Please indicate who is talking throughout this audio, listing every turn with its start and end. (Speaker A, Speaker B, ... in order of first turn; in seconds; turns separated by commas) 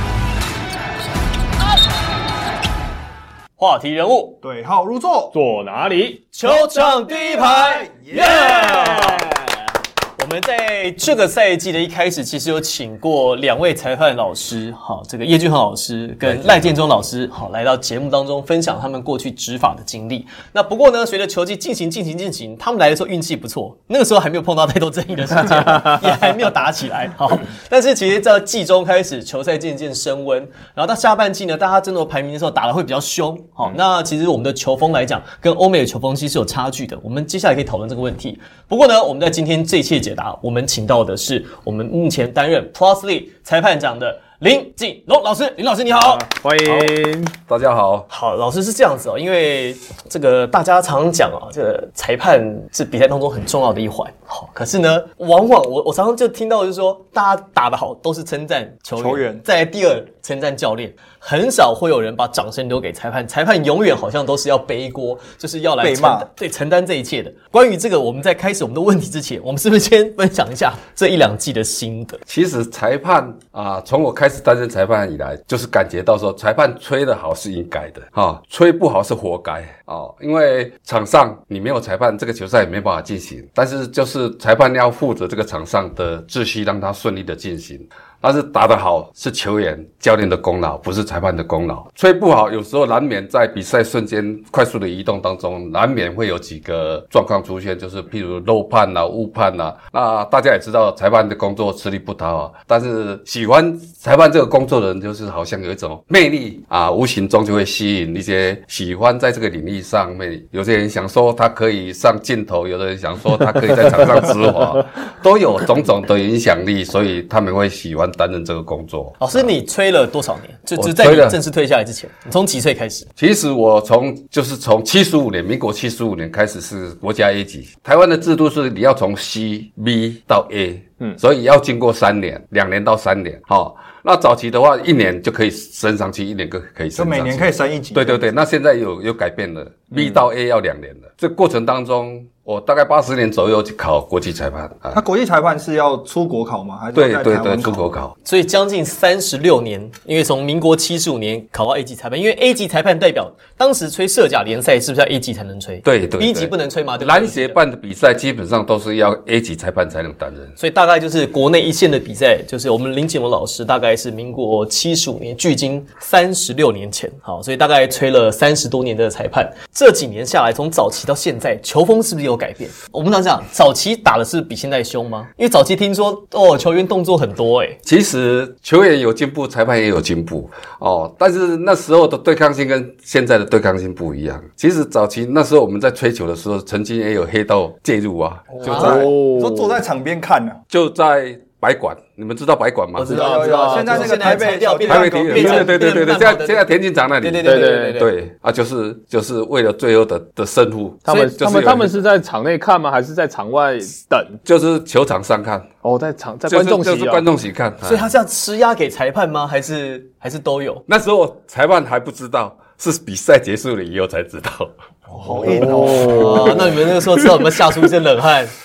Speaker A: 3.6-4.4, Speaker B: 4.4-5.3, Speaker C: 5.3-6.2, Speaker A: 6.3-9.5, Speaker B: 6.5-9.0, Speaker C: 8.4-9.2, Speaker A: 10.2-46.3, Speaker D: 16.2-16.7, Speaker C: 25.6-25.9, Speaker C: 45.9-47.3, Speaker D: 46.6-46.9, Speaker D: 47.5-48.1, Speaker A: 48.1-72.2, Speaker B: 59.0-59.4, Speaker B: 65.8-66.3, Speaker D: 72.3-119.5, Speaker A: 119.2-123.1, Speaker D: 120.8-121.4, Speaker D: 123.2-145.0, Speaker B: 136.9-138.3, Speaker C: 139.9-140.2, Speaker B: 144.9-147.9, Speaker D: 146.9-148.1, Speaker A: 148.2-157.6, Speaker D: 155.8-160.6, Speaker A: 160.6-177.8, Speaker D: 177.8-189.0, Speaker B: 188.5-190.6, Speaker A: 188.6-189.1, Speaker C: 188.7-189.8, Speaker D: 190.7-193.1, Speaker A: 192.9-196.7, Speaker C: 193.1-194.5, Speaker B: 193.1-196.0, Speaker D: 194.9-202.0, Speaker A: 197.2-198.1, Speaker C: 197.4-198.1, Speaker C: 201.1-204.4, Speaker D: 204.4-205.7, Speaker C: 205.8-207.3, Speaker D: 206.5-208.1, Speaker A: 207.8-210.8, Speaker D: 210.9-214.7, Speaker B: 215.1-216.8, Speaker C: 215.2-216.6, Speaker A: 215.5-218.5